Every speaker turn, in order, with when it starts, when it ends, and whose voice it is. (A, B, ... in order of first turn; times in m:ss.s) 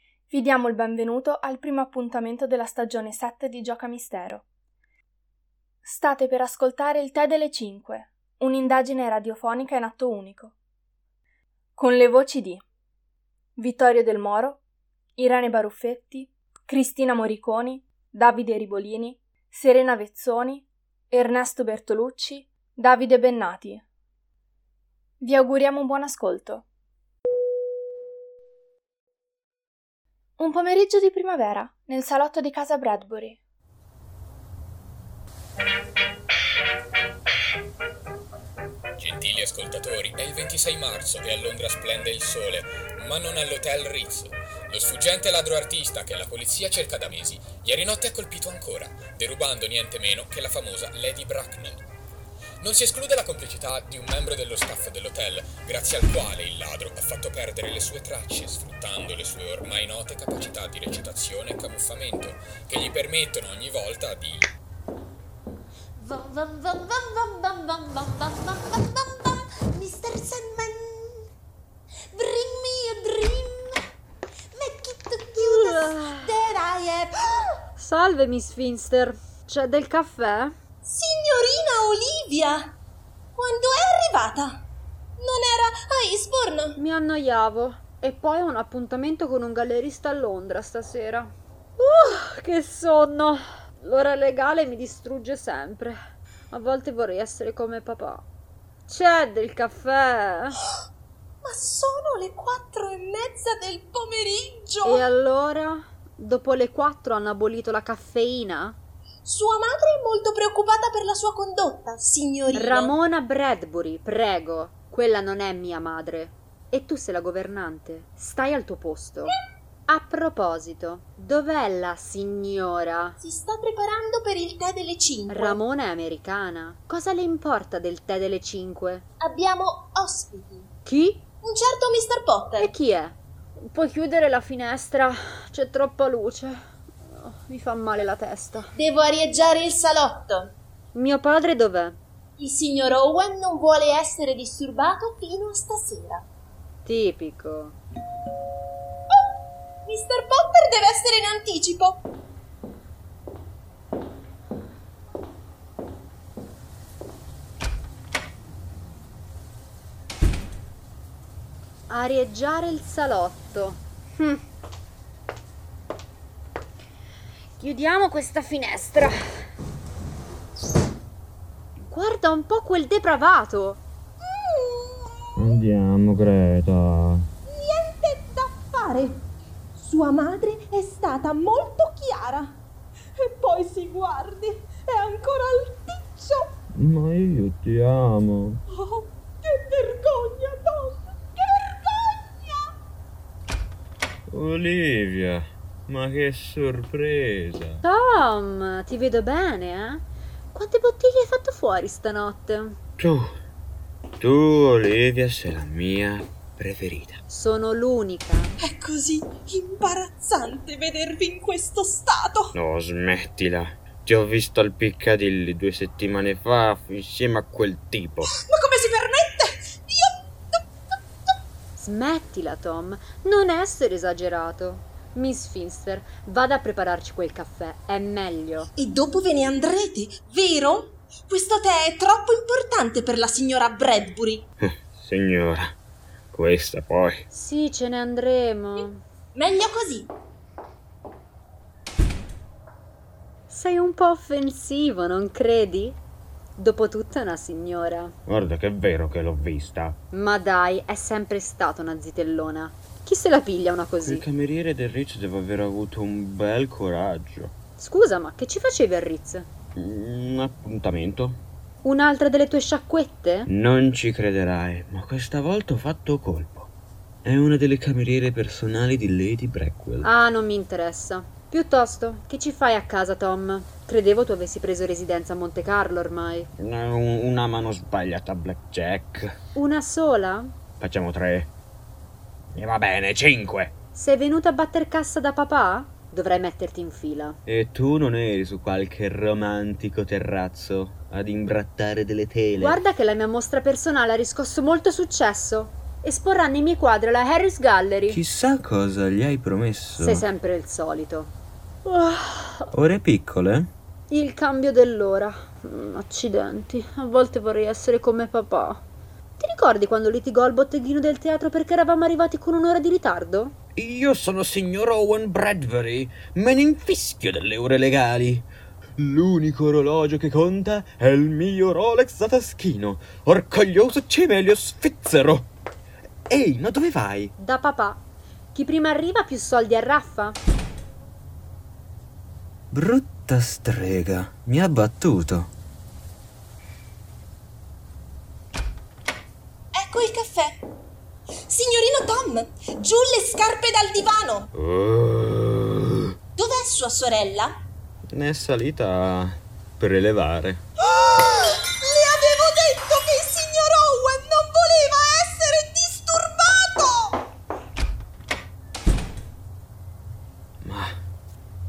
0:00.3-0:04.4 A
0:05.8-0:10.5 A
0:11.8-0:12.6 A
0:13.6-0:14.6 A
0:15.2-0:23.8 A
0:25.2-0:26.6 A
0:30.4-0:33.4 A
0:39.0-0:51.8 B
0:52.6-1:04.5 B
1:06.0-1:11.2 C
1:12.1-1:13.8 C
1:14.5-1:17.5 C
1:15.4-1:16.4 D
1:17.8-1:20.5 D
1:20.8-1:22.8 C
1:23.4-1:24.6 C
1:25.2-1:26.8 C
1:26.8-1:36.0 D
1:36.5-1:38.2 D
1:38.9-1:40.6 D
1:41.4-1:45.0 C
1:44.8-1:48.8 D
1:49.2-1:52.9 C
1:52.5-1:59.4 D
1:59.9-2:03.2 D
2:03.2-2:05.6 C
2:05.3-2:09.0 D
2:09.2-2:10.7 C
2:10.8-2:11.2 D
2:11.4-2:12.7 C
2:12.6-2:16.6 D
2:17.1-2:18.7 D
2:18.7-2:20.5 C
2:20.9-2:22.0 D
2:22.4-2:26.2 C
2:26.8-2:27.8 D
2:29.8-2:32.0 C
2:41.9-2:44.4 D
2:47.6-2:49.2 D
2:51.8-2:53.8 D
2:54.2-2:55.6 C
2:55.4-2:57.3 E
2:57.5-3:02.6 C
3:03.2-3:06.5 C
3:06.7-3:08.6 E
3:08.7-3:12.7 C
3:14.3-3:17.8 E
3:17.8-3:22.8 D
3:23.0-3:23.3 E
3:24.2-3:27.2 E
3:27.3-3:28.5 D
3:28.6-3:32.5 C
3:32.5-3:38.3 E
3:38.3-3:40.6 C
3:41.8-3:48.7 D
3:48.8-3:54.4 C
3:54.6-3:55.7 E
3:56.3-3:57.2 E
3:57.3-3:59.0 D
3:59.3-4:00.1 C
4:03.5-4:06.0 D
4:06.6-4:08.1 D
4:08.2-4:10.0 E
4:10.1-4:14.2 D
4:14.0-4:17.5 E
4:17.8-4:19.5 D
4:19.7-4:21.4 E
4:21.8-4:23.5 D
4:23.5-4:26.7 E
4:27.2-4:30.1 E
4:30.0-4:36.5 D
4:36.6-4:39.4 E
4:39.5-4:40.5 D
4:40.8-4:41.5 E
4:42.5-4:43.7 E
4:43.9-4:47.4 D
4:47.4-4:52.8 E
4:52.6-4:58.2 D
4:58.1-5:00.3 E
5:00.0-5:01.3 D
5:01.8-5:02.7 D
5:02.7-5:03.7 E
5:04.1-5:08.8 D
5:09.4-5:13.5 D
5:13.8-5:18.4 E
5:19.0-5:25.5 E
5:26.3-5:27.3 E
5:27.4-5:28.0 D
5:28.5-5:30.4 D
5:32.7-5:35.5 E
5:39.7-5:40.6 C
5:41.5-5:44.5 C
5:44.5-5:46.1 E
5:46.4-5:47.6 C
5:48.1-5:50.6 E
5:50.8-5:57.2 C
6:00.6-6:00.9 E